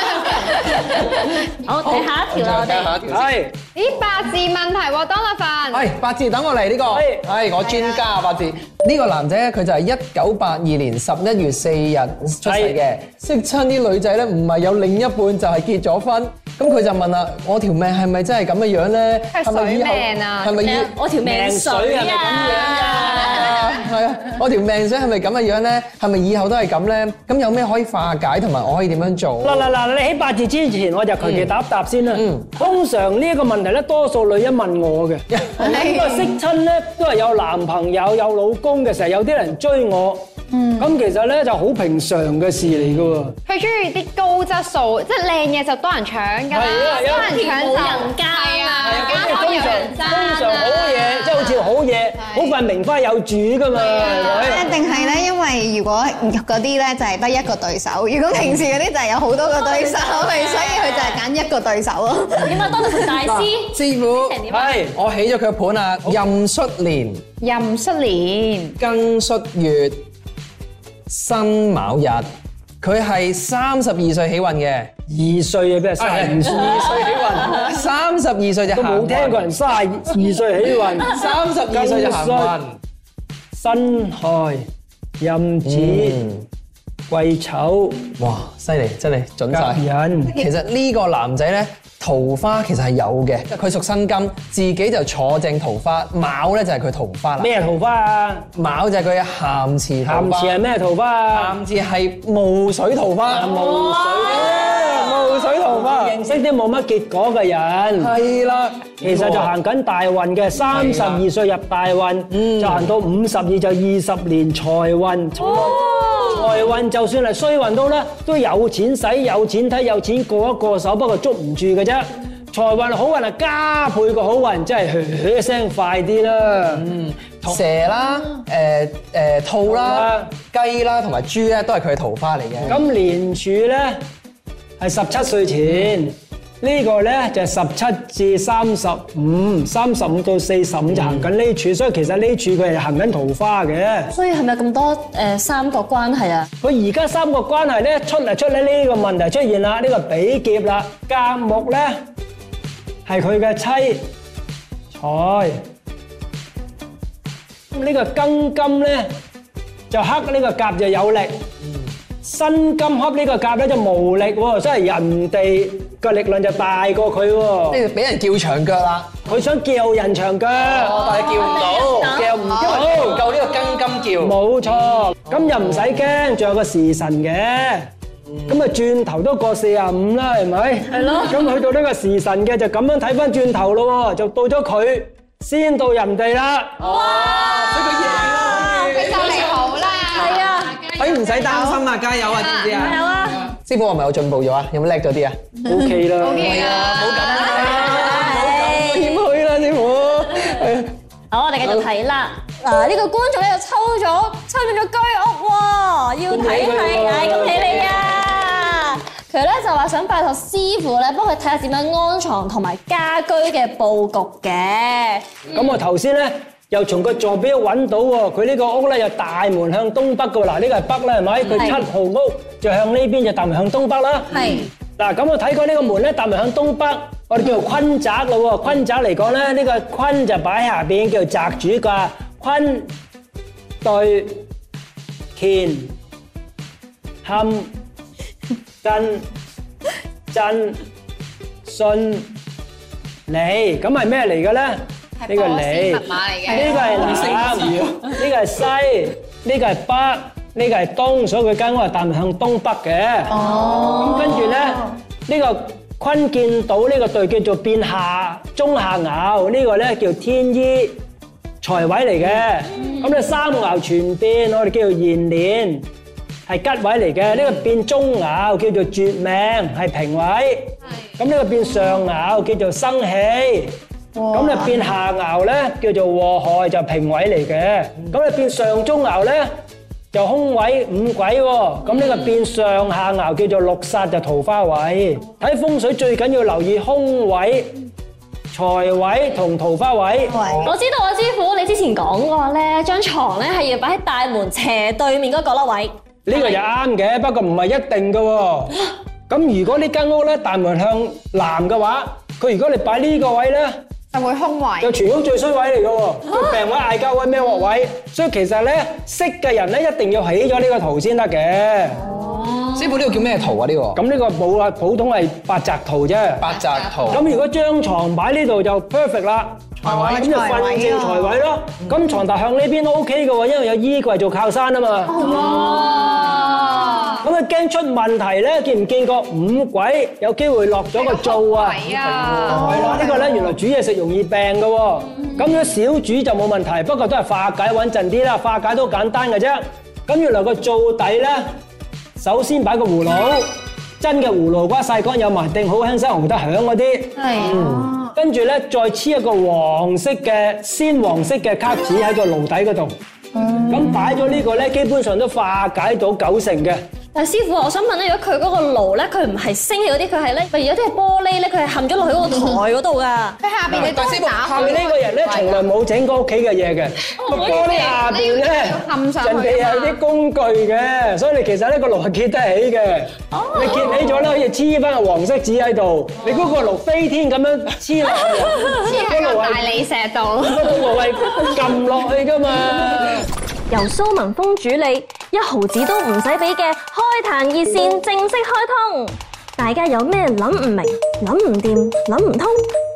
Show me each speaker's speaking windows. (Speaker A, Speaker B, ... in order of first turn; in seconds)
Speaker A: 0.7-3.0, 20.6-23.7, 46.9-50.4, 59.6-61.2, 62.4-64.8, 103.7-104.5, 115.4-116.5, 144.1-146.5, 170.9-172.4, 180.9-181.4, 186.8-189.4, 190.0-190.9, 192.7-193.5, 197.3-199.2, 201.3-215.6, 221.5-221.8, 224.3-224.6, 253.7-254.2, 290.6-296.6, 325.2-327.2, 357.1-363.4, 367.2-368.0, 373.3-374.3, 383.7-392.7
Speaker B: 1.8-3.3, 5.7-20.9, 22.8-29.7, 31.2-31.5, 32.1-32.6, 35.3-35.6, 42.6-43.3, 63.1-67.2, 68.8-70.0, 71.1-72.3, 72.8-74.9, 76.0-79.5, 81.0-82.8, 85.7-86.5, 88.2-97.5, 98.5-100.6, 101.3-106.2, 108.0-109.5, 110.7-111.2, 112.3-112.9, 126.7-132.8, 140.9-141.3, 161.6-161.9, 167.7-169.3, 170.6-174.4, 186.8-189.7, 190.8-195.5, 196.2-200.9, 246.8-248.2, 312.7-314.0, 316.4-317.3, 319.8-320.2, 347.4-347.9, 363.7-364.5
Speaker C: 3.1-3.5, 6.9-7.2, 12.4-12.8, 21.2-23.6, 29.4-43.4, 46.5-47.4, 48.8-54.7, 64.5-65.0, 75.1-76.9, 78.7-82.5, 83.5-84.7, 85.2-86.3, 87.1-88.1, 89.5-90.4, 97.4-98.5, 100.0-101.6, 103.3-108.1, 109.0-126.9, 129.7-130.3, 132.7-134.1, 134.8-144.1, 146.6-152.0, 153.1-154.1, 154.9-155.6, 157.7-159.1, 159.9-161.5, 162.2-167.8, 169.3-171.0, 171.9-173.3, 174.2-177.9, 178.5-186.8, 195.6-196.9, 206.3-208.2, 215.5-232.9, 233.8-234.5, 235.3-236.0, 237.2-237.8, 238.8-239.3, 240.3-240.8, 241.7-242.4, 243.3-261.0, 261.6-265.9, 266.5-273.8, 274.3-279.5, 280.1-287.8, 288.5-290.6, 296.3-303.8, 304.8-312.1, 313.9-316.5, 317.1-325.3, 327.2-341.5, 342.2-353.0, 353.7-356.8, 364.4-379.8, 380.5-383.3
Speaker D: 3.8-5.9, 19.3-20.6, 43.5-51.6, 53.9-54.6, 67.4-68.8, 188.8-190.4, 191.5-191.8, 192.4-192.7, 196.2-197.9, 245.3-246.8, 304.1-304.9, 325.4-327.2, 331.0-333.2, 363.4-365.7, 367.3-370.0, 378.7-380.9
Speaker E: 35.6-36.4, 40.5-40.9, 52.2-52.5, 53.9-63.1, 172.4-172.8, 246.4-247.3, 253.3-254.9, 274.1-274.9, 290.3-290.8, 312.1-312.7, 319.8-321.4, 325.1-326.3, 332.5-333.6, 347.2-348.1, 353.3-354.1